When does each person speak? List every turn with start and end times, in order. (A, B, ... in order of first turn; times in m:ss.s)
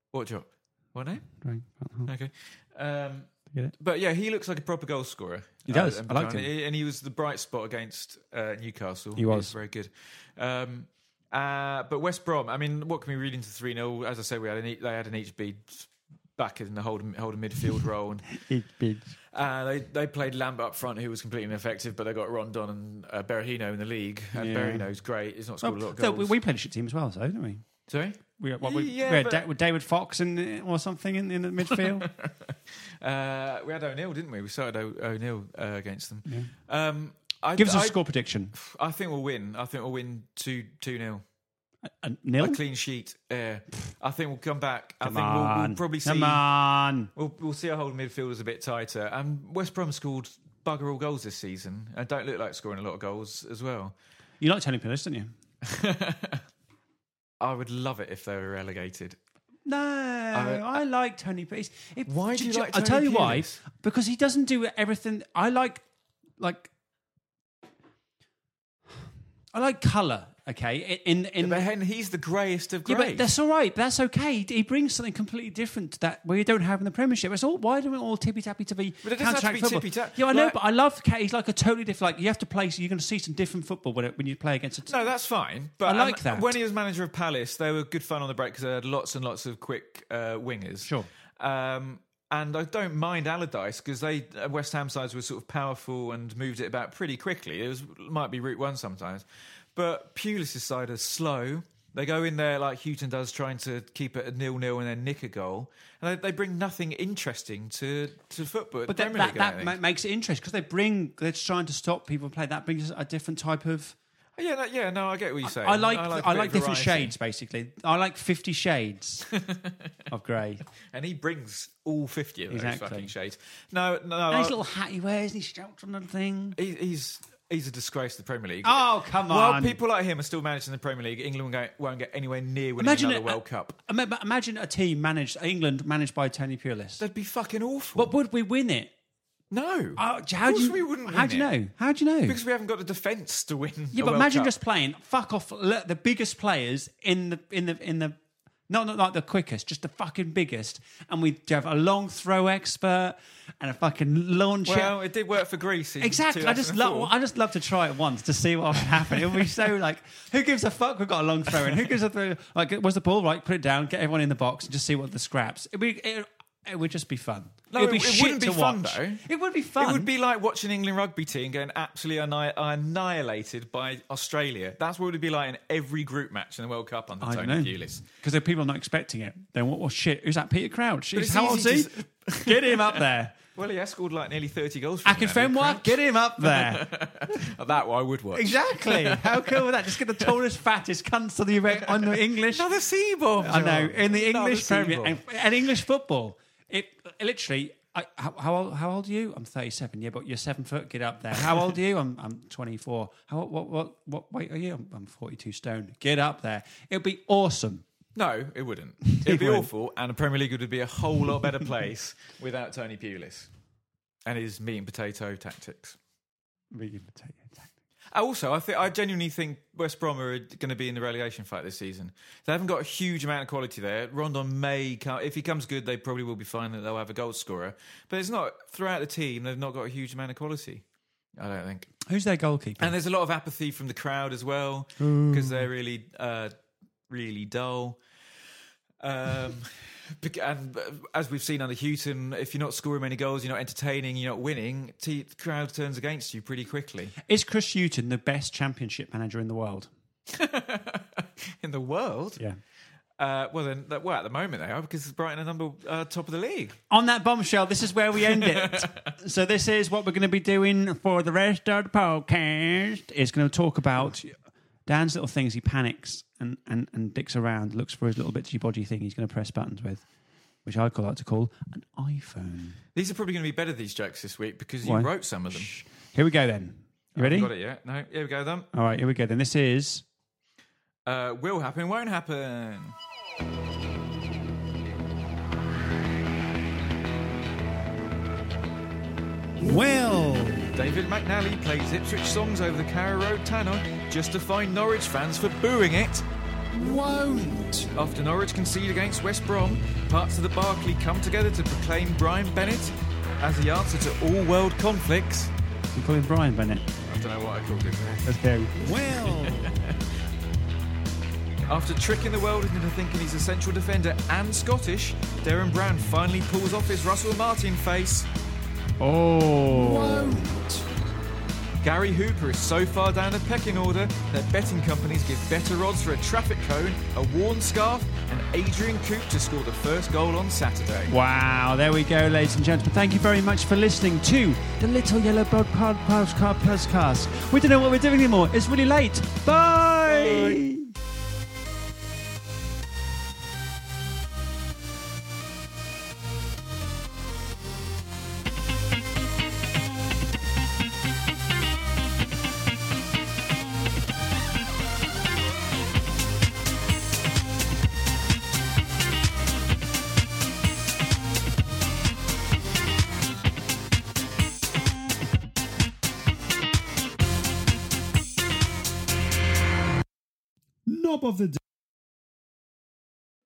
0:00.1-0:01.2 A
0:01.4-0:02.1 B
0:02.0-0:18.4 A
0:05.6-0:06.5 B
0:09.2-0:09.5 B
0:18.4-0:19.2 B
0:19.3-0:26.3 A
0:24.3-0:24.9 B
0:25.6-0:27.6 B
0:27.9-0:29.4 A
0:28.4-0:32.1 B
0:31.7-0:38.0 A
0:36.2-0:36.5 B
0:37.6-0:38.5 B
0:38.5-0:41.2 A
0:41.8-0:42.6 B
0:42.4-0:46.4 A
0:45.0-0:47.1 B
0:47.1-0:53.9 A
0:54.4-0:55.3 B
0:55.6-0:56.4 A
0:57.4-0:59.2 A
0:59.6-1:05.8 B
1:00.3-1:00.8 A
1:02.1-1:03.6 A
1:06.4-1:06.7 B
1:09.5-1:11.6 B
1:11.4-1:13.3 A
1:12.8-1:25.0 B
1:19.0-1:20.6 A
1:24.8-1:39.2 A
1:25.8-1:26.5 B
1:30.8-1:31.1 B
1:39.7-1:49.8 A
1:48.9-1:54.0 B
1:54.4-1:57.1 A
1:55.4-1:59.3 B
1:59.3-1:59.9 A
2:00.1-2:00.6 B
2:00.9-2:04.5 A
2:02.5-2:03.1 B
2:04.3-2:06.6 B
2:06.6-2:13.8 A
2:08.6-2:09.8 B
2:12.8-2:17.0 B
2:17.0-2:18.1 A
2:17.9-2:18.9 B
2:19.5-2:21.5 A
2:20.0-2:22.4 B
2:22.3-2:24.5 A
2:23.9-2:28.2 B
2:28.7-2:34.9 B
2:34.6-2:37.1 A
2:36.0-2:50.1 B
2:47.7-2:49.2 A
2:49.8-2:58.0 A
2:57.2-3:03.3 B
3:01.1-3:09.7 A
3:05.0-3:07.0 B
3:08.3-3:12.7 B
3:11.8-3:15.2 A
3:13.4-3:27.8 B
3:28.1-3:33.5 A
3:29.1-3:29.7 B
3:34.2-3:36.0 A
3:36.7-3:37.7 B
3:38.1-3:50.8 A
3:51.4-3:51.9 A
3:52.0-3:52.9 B
3:52.8-3:56.5 A
3:55.0-3:55.7 B
3:57.1-3:58.0 A
3:59.0-4:07.1 A
4:07.3-4:09.9 B
4:10.3-4:12.4 A
4:13.2-4:16.8 A
4:16.9-4:30.0 B
4:18.2-4:19.1 A
4:30.6-4:32.8 B
4:32.9-4:35.7 A
4:34.8-4:37.5 B
4:37.1-4:38.7 A
4:38.7-4:40.0 B
4:41.0-4:43.0 A
4:49.6-4:50.8 B
4:50.7-4:56.2 A
4:56.7-4:57.9 B
4:57.9-5:05.5 A
5:05.9-5:06.9 B
5:07.0-5:09.9 A
5:08.2-5:09.8 B
5:11.7-5:18.3 A
5:19.0-5:20.8 B
5:19.7-5:20.4 A
5:21.8-5:31.1 A
5:31.1-5:40.9 B
5:40.0-5:40.6 A
6:10.9-6:11.6 B